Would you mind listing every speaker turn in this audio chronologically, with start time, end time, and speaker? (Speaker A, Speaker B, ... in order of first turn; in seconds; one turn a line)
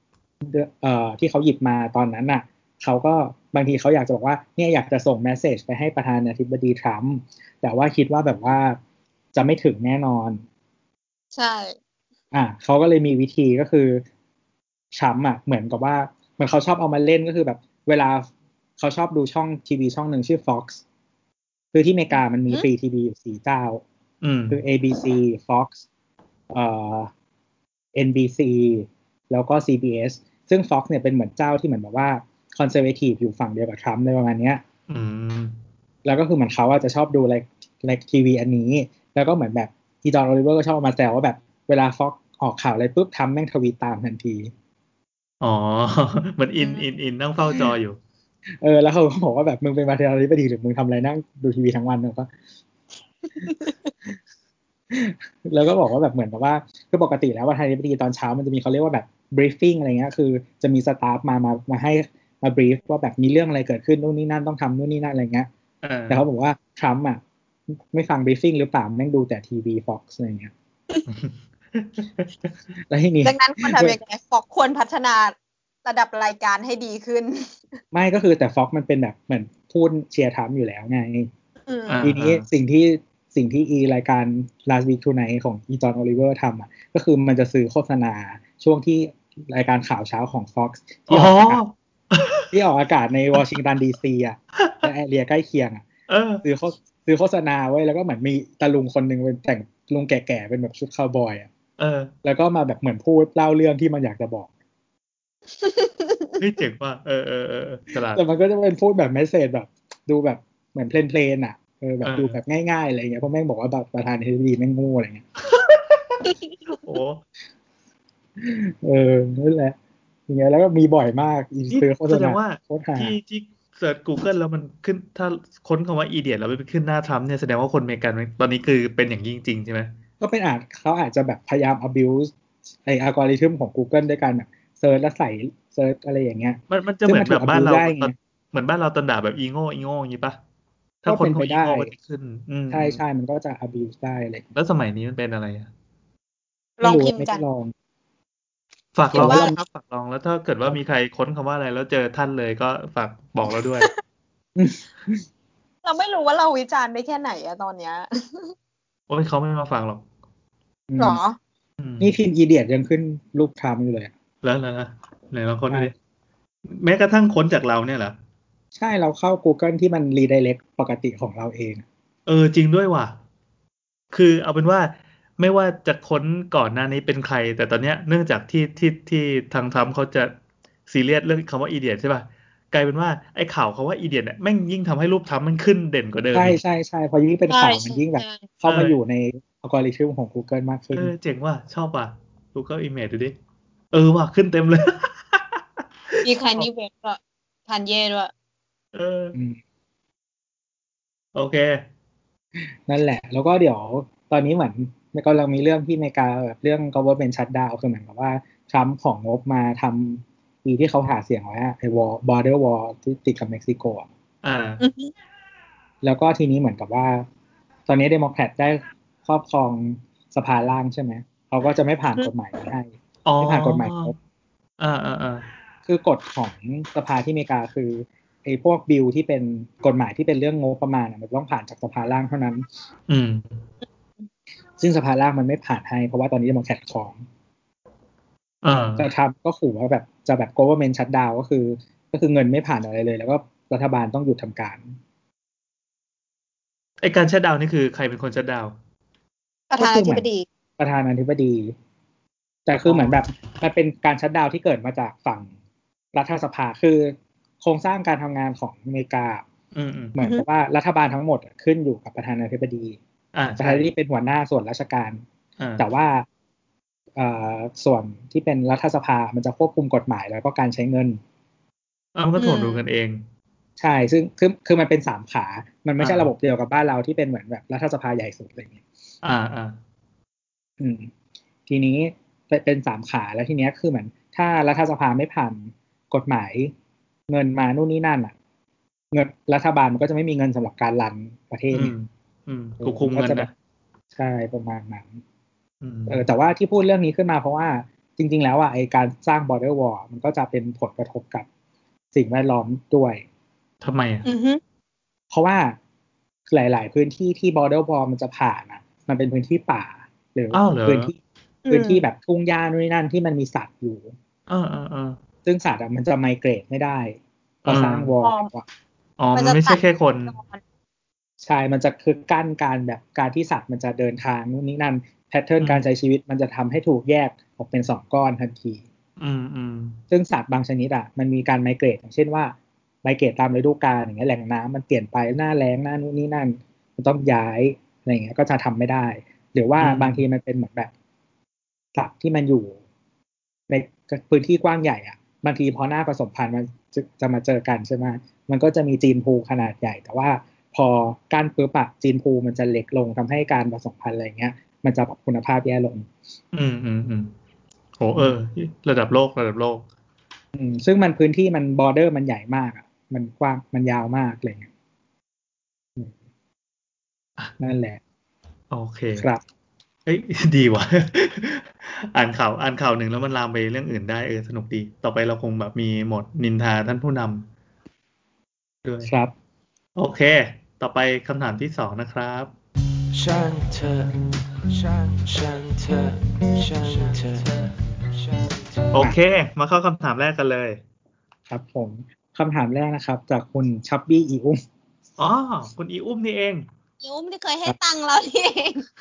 Speaker A: 0.4-8.8
Speaker A: 9.3-10.4
Speaker B: 11.3-11.8
Speaker A: 12.3-14.0
Speaker A: 14.9-20.8
Speaker A: 21.7-23.8
Speaker C: 24.2-24.6
Speaker A: 24.5-25.8
Speaker A: 26.5-27.1
Speaker A: 27.9-34.6
Speaker C: 34.9-35.6
Speaker A: 36.0-44.5
Speaker C: 45.4-48.0
Speaker B: 46.6-46.8
Speaker A: 48.6-52.3
Speaker B: 53.4-53.9
Speaker A: 54.9-65.5
Speaker C: 65.8-66.2
Speaker A: 66.1-67.2
Speaker A: 67.9-70.5
Speaker C: 71.1-72.3
Speaker A: 72.9-74.0
Speaker B: 73.2-75.3
Speaker B: 75.8-77.8
Speaker A: 77.9-81.3
Speaker B: 81.7-82.0
Speaker C: 81.9-82.5
Speaker A: 82.0-91.6
Speaker C: 91.1-92.5
Speaker A: 92.5-95.8
Speaker C: 94.6-94.9
Speaker C: 96.1-96.4
Speaker A: 96.4-101.5
Speaker C: 101.8-102.1
Speaker A: 102.2-104.5
Speaker B: 105.6-106.4
Speaker C: 106.4-108.2
Speaker A: 108.1-115.2
Speaker C: 112.0-112.4
Speaker C: 115.5-116.0
Speaker B: 116.2-116.8
Speaker C: 116.8-117.2
Speaker A: 118.4-119.8
Speaker A: 120.3-123.1
Speaker C: 121.7-129.9
Speaker A: 130.2-132.3
Speaker A: 132.8-138.1
Speaker C: 136.7-140.4
Speaker C: 141.0-143.0
Speaker A: 141.1-141.9
Speaker A: 142.7-144.4
Speaker C: 144.5-145.7
Speaker B: 146.8-147.4
Speaker A: 146.8-147.7
Speaker C: 148.9-153.9
Speaker A: 149.1-149.6
Speaker B: 149.2-149.5
Speaker A: 154.6-155.2
Speaker B: 155.8-158.5
Speaker C: 159.1-160.0
Speaker A: 160.9-161.2
Speaker B: 161.0-161.4
Speaker C: 161.8-162.1
Speaker A: 162.0-164.1
Speaker C: 164.4-165.9
Speaker C: 166.7-168.1
Speaker A: 168.7-171.8
Speaker C: 172.3-173.2
Speaker C: 174.1-180.3
Speaker C: 180.9-186.6
Speaker A: 186.3-191.1
Speaker B: 187.5-188.5
Speaker C: 188.6-189.0
Speaker C: 190.9-193.3
Speaker C: 193.9-196.7
Speaker B: 196.2-198.3
Speaker C: 198.9-199.3
Speaker A: 199.3-199.6
Speaker C: 201.3-201.8
Speaker A: 202.8-214.1
Speaker C: 214.4-214.8
Speaker B: 214.8-215.1
Speaker A: 216.0-217.2
Speaker A: 217.9-224.1
Speaker C: 223.2-224.1
Speaker C: 224.8-225.4
Speaker A: 225.8-232.7
Speaker C: 233.1-233.6
Speaker A: 234.8-237.2
Speaker C: 238.6-239.1
Speaker A: 239.0-244.9
Speaker C: 247.0-248.7
Speaker B: 249.7-250.5
Speaker A: 249.8-250.2
Speaker A: 250.8-251.7
Speaker A: 252.7-255.5
Speaker C: 252.8-253.2
Speaker A: 256.1-259.4
Speaker C: 259.7-260.1
Speaker A: 260.1-263.0
Speaker C: 263.3-263.8
Speaker A: 263.6-265.2
Speaker C: 265.6-265.8
Speaker A: 265.8-266.2
Speaker A: 267.1-271.2
Speaker C: 272.1-273.2
Speaker B: 272.4-272.8
Speaker A: 273.8-278.8
Speaker C: 276.0-276.3
Speaker C: 279.2-279.8
Speaker A: 280.8-281.1
Speaker A: 281.7-286.7
Speaker A: 287.3-288.3
Speaker A: 289.1-291.9
Speaker C: 291.7-293.5
Speaker A: 292.8-293.5
Speaker A: 294.1-295.2
Speaker C: 295.8-296.2
Speaker A: 296.1-301.5
Speaker A: 302.1-303.2
Speaker C: 303.8-304.2
Speaker B: 304.2-304.6
Speaker A: 305.3-305.8
Speaker A: 306.5-314.1
Speaker C: 310.5-311.1
Speaker B: 311.6-312.0
Speaker C: 314.5-315.2
Speaker A: 315.4-318.6
Speaker C: 317.6-318.1
Speaker B: 318.2-318.5
Speaker C: 319.2-320.3
Speaker B: 319.3-320.6
Speaker A: 321.4-328.8
Speaker C: 325.6-325.9
Speaker C: 329.2-330.0
Speaker A: 330.1-340.9
Speaker C: 339.8-340.2
Speaker A: 341.9-342.8
Speaker A: 343.7-356.1
Speaker C: 356.5-357.3
Speaker C: 358.0-359.8
Speaker A: 360.5-364.7
Speaker A: 367.6-368.0
Speaker C: 368.7-369.3
Speaker A: 369.1-369.4
Speaker C: 370.1-377.5
Speaker C: 378.8-379.1
Speaker A: 379.0-379.3
Speaker C: 379.9-382.5
Speaker D: 383.1-388.9
Speaker C: 388.9-390.8
Speaker A: 391.5-394.6
Speaker C: 395.2-396.6
Speaker B: 397.0-398.9